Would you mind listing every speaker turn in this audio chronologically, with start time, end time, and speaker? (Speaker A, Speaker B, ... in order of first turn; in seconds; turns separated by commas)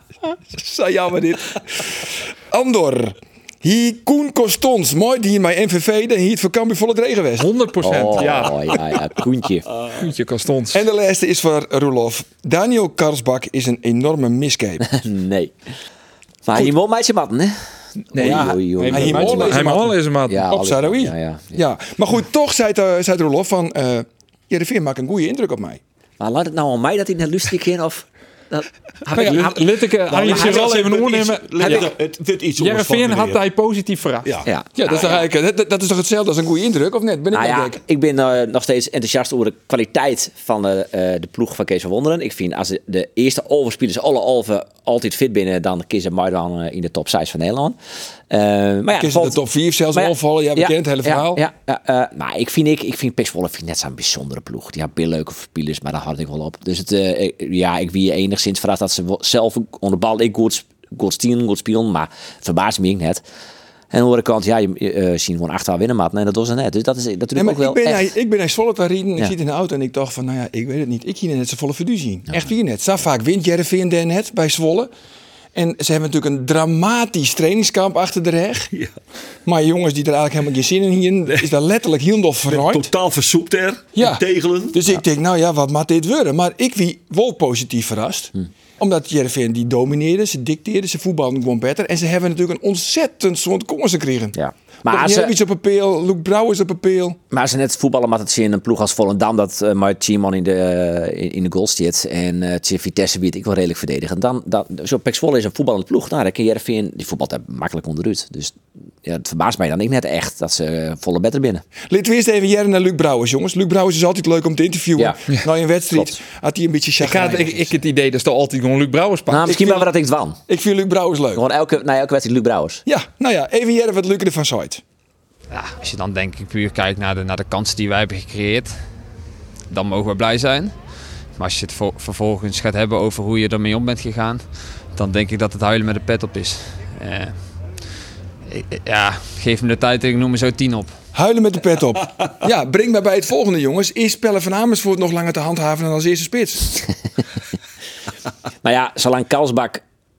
Speaker A: 0.5-7.5, Speaker B: 7.4-8.7, Speaker C: 7.8-9.7, Speaker B: 9.9-10.8, Speaker A: 10.7-14.9, Speaker C: 14.9-15.5, Speaker C: 16.4-17.6, Speaker B: 18.1-21.0, Speaker C: 18.1-19.7, Speaker A: 18.1-19.9, Speaker C: 20.3-21.6, Speaker A: 20.6-25.8, Speaker C: 26.2-29.6, Speaker B: 29.1-31.9, Speaker A: 29.1-29.5, Speaker D: 30.1-33.4, Speaker C: 30.2-30.6, Speaker B: 32.6-34.3, Speaker C: 34.5-35.3, Speaker A: 34.8-37.8, Speaker C: 37.3-47.8, Speaker C: 48.3-49.4, Speaker A: 49.0-51.4, Speaker C: 49.9-63.2, Speaker C: 63.9-68.1, Speaker A: 67.3-74.9, Speaker A: 75.5-78.7, Speaker A: 79.4-82.9, Speaker D: 82.5-84.8, Speaker A: 84.0-94.3, Speaker C: 94.3-95.3, Speaker A: 94.9-97.2, Speaker C: 97.3-111.6, Speaker A: 111.9-117.7, Speaker B: 117.0-119.8, Speaker C: 119.3-120.4, Speaker A: 119.5-119.8, Speaker A: 120.5-121.4, Speaker C: 121.3-122.8, Speaker A: 122.8-124.8, Speaker E: 125.5-128.8, Speaker E: 129.7-130.7, Speaker E: 131.4-137.4, Speaker E: 138.5-140.9, Speaker A: 141.1-146.7, Speaker C: 148.6-149.8